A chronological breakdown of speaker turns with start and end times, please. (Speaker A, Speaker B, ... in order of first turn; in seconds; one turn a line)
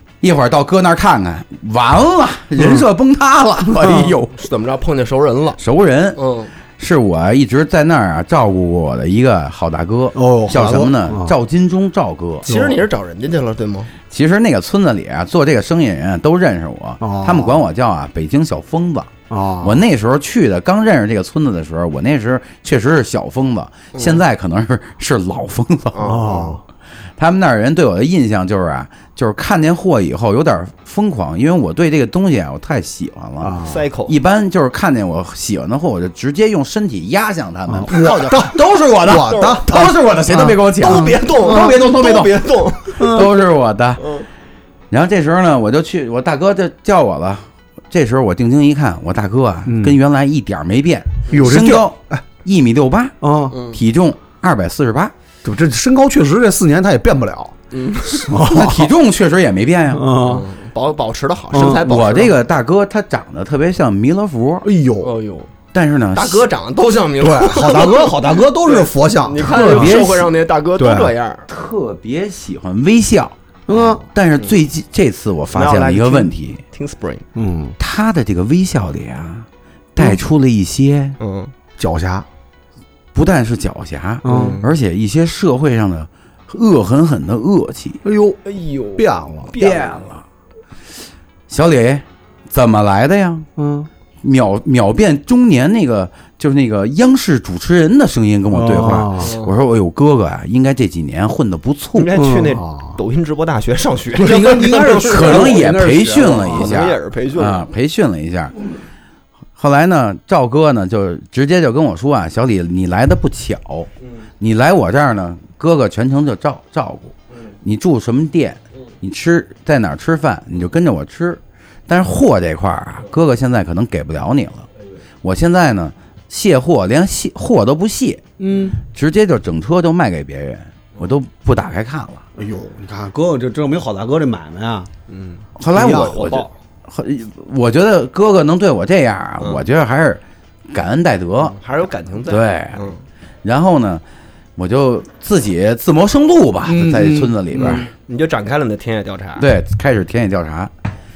Speaker A: 0.2-4.4
Speaker B: 4.4-5.6
Speaker A: 5.6-6.2
Speaker B: 6.2-6.5
Speaker A: 6.8-12.5
Speaker C: 10.2-11.3
Speaker B: 12.4-13.9
Speaker C: 12.5-12.8
Speaker A: 14.1-26.4
Speaker C: 17.0-17.6
Speaker C: 19.3-19.8
Speaker B: 23.9-24.2
Speaker B: 25.9-26.6
Speaker C: 26.0-26.6
Speaker A: 27.2-42.4
Speaker C: 33.4-33.8
Speaker B: 33.6-34.2
Speaker C: 37.7-41.2
Speaker B: 39.3-39.7
Speaker B: 40.8-43.2
Speaker C: 43.0-43.3
Speaker A: 43.0-44.0
Speaker B: 44.0-44.3
Speaker A: 44.9-53.2
Speaker C: 49.7-50.0
Speaker C: 51.3-52.2
Speaker C: 53.2-53.6
Speaker B: 53.5-53.8
Speaker A: 53.7-55.1
Speaker C: 55.4-57.5
Speaker B: 57.7-58.3
Speaker C: 58.1-58.9
Speaker A: 58.4-60.1
Speaker C: 59.9-60.5
Speaker B: 60.2-62.3
Speaker C: 61.5-62.1
Speaker A: 61.7-64.7
Speaker C: 64.6-65.1
Speaker B: 65.0-65.5
Speaker A: 65.7-66.5
Speaker B: 66.1-71.5
Speaker C: 67.2-70.0
Speaker A: 69.4-70.3
Speaker C: 70.8-71.1
Speaker A: 71.5-73.4
Speaker C: 73.7-74.0
Speaker A: 74.1-76.6
Speaker B: 75.5-77.2
Speaker C: 77.3-77.8
Speaker A: 77.8-81.2
Speaker B: 81.2-81.5
Speaker C: 81.8-82.3
Speaker A: 83.1-88.0
Speaker C: 84.2-84.6
Speaker B: 84.2-84.7
Speaker C: 88.0-88.4
Speaker B: 88.4-90.0
Speaker C: 89.0-89.5
Speaker A: 89.6-90.2
Speaker A: 91.5-93.5
Speaker C: 93.6-93.9
Speaker A: 94.2-102.2
Speaker C: 98.5-99.3
Speaker B: 99.2-99.5
Speaker B: 102.0-105.7
Speaker C: 102.2-103.0
Speaker C: 104.1-106.8
Speaker A: 105.0-108.5
Speaker B: 106.4-107.7
Speaker A: 109.6-113.9
Speaker A: 114.4-124.7
Speaker A: 125.2-128.2
Speaker C: 128.4-128.8
Speaker A: 128.8-132.2
Speaker C: 132.4-134.9
Speaker B: 135.1-136.5
Speaker A: 135.6-141.6
Speaker C: 135.7-136.2
Speaker B: 141.4-143.0
Speaker A: 142.3-142.9
Speaker A: 143.4-144.0
Speaker A: 144.6-147.9
Speaker C: 146.7-147.8
Speaker B: 147.6-149.5
Speaker A: 149.4-150.7